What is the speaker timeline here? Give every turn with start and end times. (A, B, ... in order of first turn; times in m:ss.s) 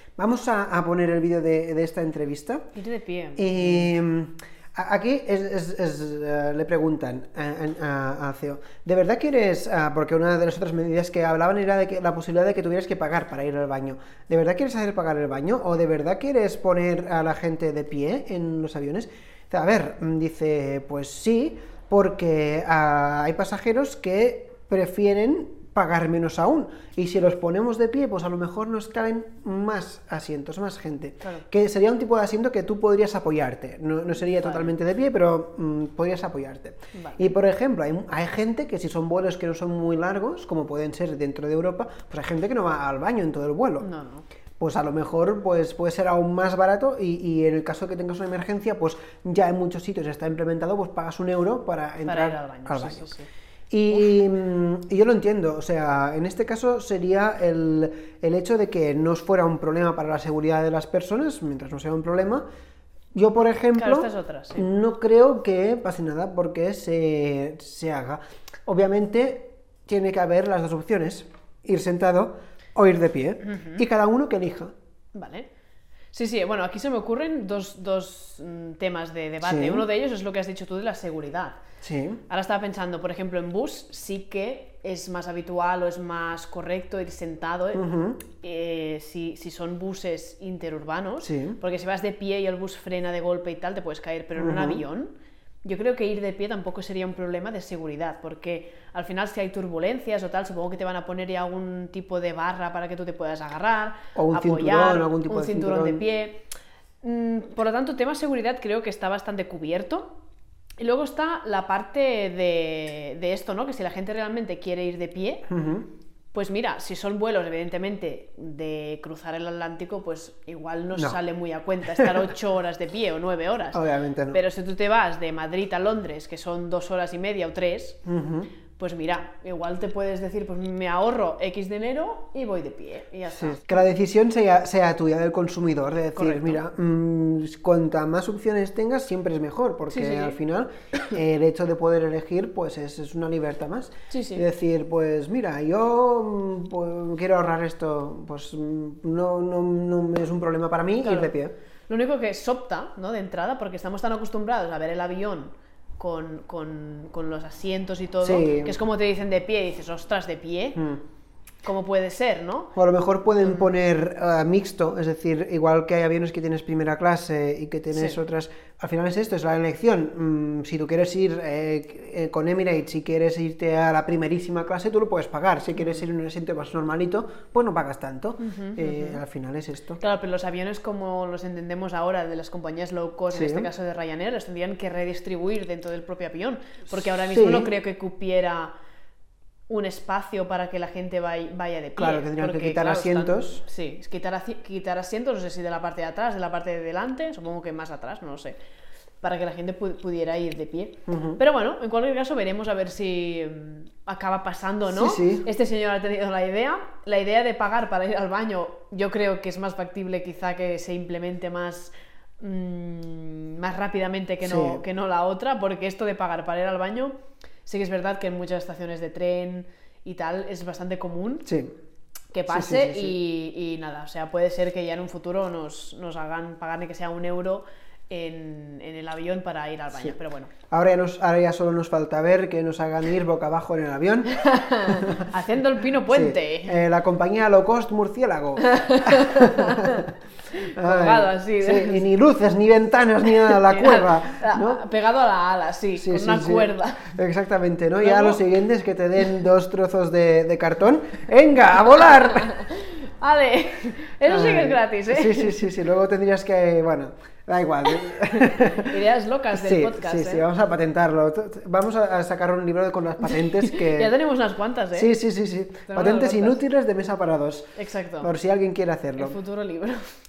0:00.2-0:02.7 A
0:02.7-0:03.9 B
0:03.4-0:43.9 A
0:34.2-0:34.7 B
0:36.9-0:37.3 B
0:43.8-0:44.2 B
0:44.6-0:53.1 A
0:52.0-0:53.3 B
0:53.7-1:02.4 A
1:03.1-1:14.7 A
1:03.8-1:04.7 B
1:13.4-1:13.8 B
1:15.1-1:15.5 B
1:16.1-1:21.6 B
1:19.4-1:19.8 A
1:21.8-1:22.2 A
1:22.3-1:46.5 B
1:27.7-1:28.2 A
1:31.2-1:31.6 A
1:34.4-1:34.8 A
1:44.1-1:46.0 A
1:47.0-1:50.1 B
1:50.8-1:55.5 B
1:55.5-1:55.9 A
1:56.3-2:03.8 B
2:01.9-2:02.3 A
2:03.7-2:04.4 A
2:04.3-2:08.0 B
2:08.0-2:08.5 A
2:08.8-2:13.9 B
2:13.3-2:31.5 A
2:16.2-2:16.6 B
2:19.9-2:20.4 B
2:24.1-2:24.4 B
2:31.0-2:31.3 B
2:31.9-2:40.9 B
2:38.2-2:38.7 A
2:41.6-2:42.8 B
2:42.8-3:00.0 A
2:43.4-2:43.7 B
2:55.8-2:56.0 B
2:58.4-2:59.2 B
3:00.0-3:08.7 B
3:03.3-3:03.7 A
3:07.3-3:07.7 A
3:09.7-3:18.6 B
3:12.0-3:13.6 A
3:19.2-3:41.5 B
3:21.1-3:21.4 A
3:24.9-3:25.5 A
3:34.4-3:34.8 A
3:41.4-3:41.7 A
3:42.3-3:50.5 B
3:42.5-3:43.1 A
3:50.7-3:55.3 A
3:54.3-3:56.8 B
3:56.1-4:04.8 A
3:58.6-4:02.1 B
4:03.2-4:07.2 B
4:06.0-4:12.6 A
4:08.0-4:08.4 B
4:12.1-4:15.6 B
4:14.3-4:19.0 A
4:18.4-4:20.4 B
4:19.5-4:24.1 A
4:23.2-4:25.1 B
4:24.9-4:29.4 A
4:25.8-4:26.6 B
4:27.8-4:28.3 B
4:29.2-4:30.0 B